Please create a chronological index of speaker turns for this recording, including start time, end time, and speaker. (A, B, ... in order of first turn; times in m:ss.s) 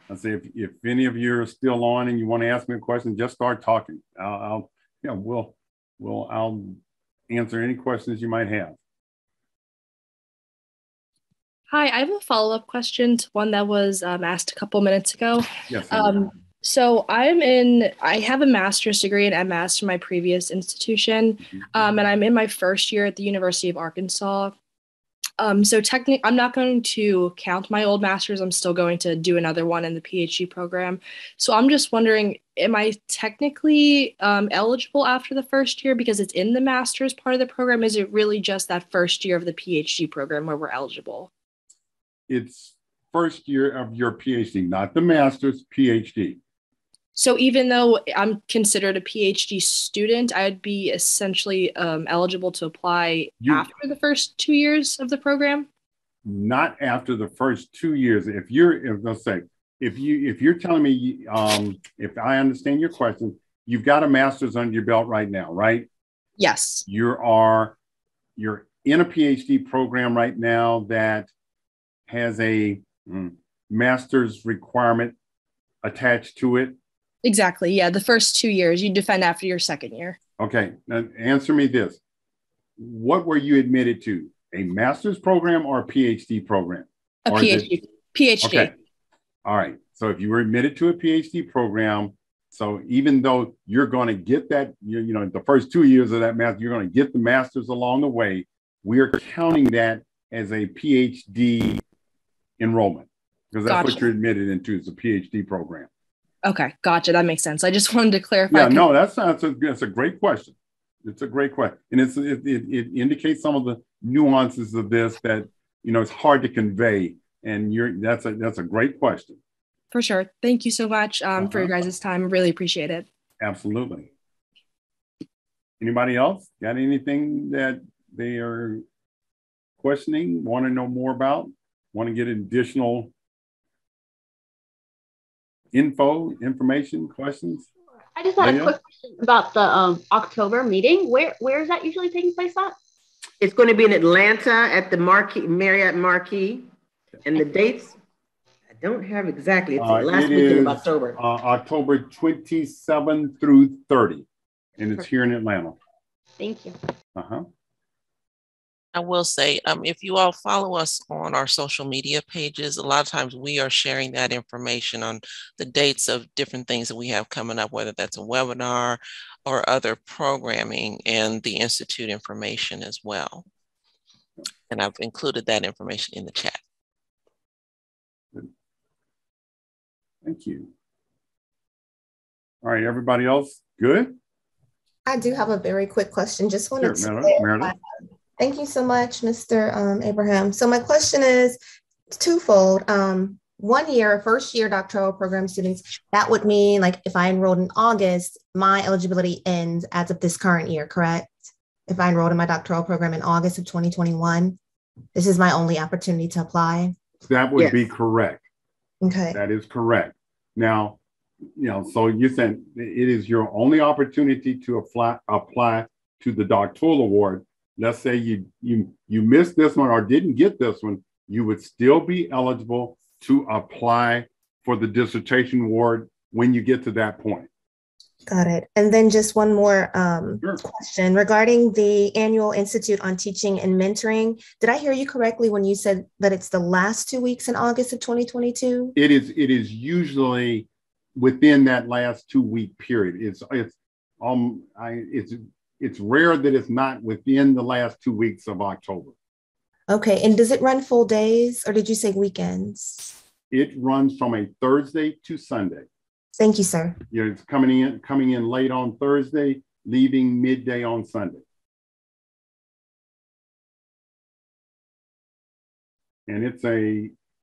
0:00.1-0:08.8 A
0:11.7-0:24.5 B
0:15.7-0:16.3 A
0:25.4-0:41.3 B
0:42.3-0:46.4 A
0:47.1-0:55.7 B
0:53.4-0:53.7 A
0:56.2-1:05.9 A
1:06.4-1:06.8 B
1:06.9-1:07.8 A
1:08.4-1:11.3 A
1:12.1-1:15.1 A
1:15.8-1:16.8 A
1:17.2-1:20.2 B
1:20.4-1:22.0 A
1:22.8-1:27.7 A
1:27.2-1:28.7 B
1:28.4-1:28.7 A
1:29.4-1:41.8 A
1:42.6-1:45.9 A
1:43.7-1:44.0 B
1:46.4-1:48.9 B
1:48.5-1:50.5 A
1:51.0-1:59.4 A
1:59.9-2:03.0 B
2:01.4-2:01.8 A
2:03.4-2:04.1 A
2:05.8-2:08.8 A
2:09.8-2:13.1 A
2:15.7-2:17.7 A
2:18.1-2:22.8 C
2:18.4-2:18.7 A
2:23.4-2:26.7 D
2:27.2-2:28.0 D
2:28.8-2:31.2 D
2:29.8-2:34.2 A
2:34.8-2:35.8 A
2:36.4-2:36.8 C
2:37.1-2:37.4 A
2:38.9-2:53.4 E
2:54.7-2:56.6 E
3:00.2-3:00.7 A
3:02.6-3:04.2 A
3:05.0-3:07.7 F
3:06.8-3:07.7 A
3:08.4-3:11.6 F
3:12.1-3:24.6 F
3:25.1-3:26.9 F
3:27.2-3:28.4 A
3:27.6-3:27.9 D
3:29.0-3:29.4 F
3:29.3-3:31.0 A
3:31.6-3:47.5 A
3:48.3-3:58.9 F
3:58.9-4:09.1 A
4:09.9-4:13.2 F
4:13.5-4:15.8 A
4:16.3-4:17.0 F
4:17.1-4:21.4 A
4:26.3-4:27.1 A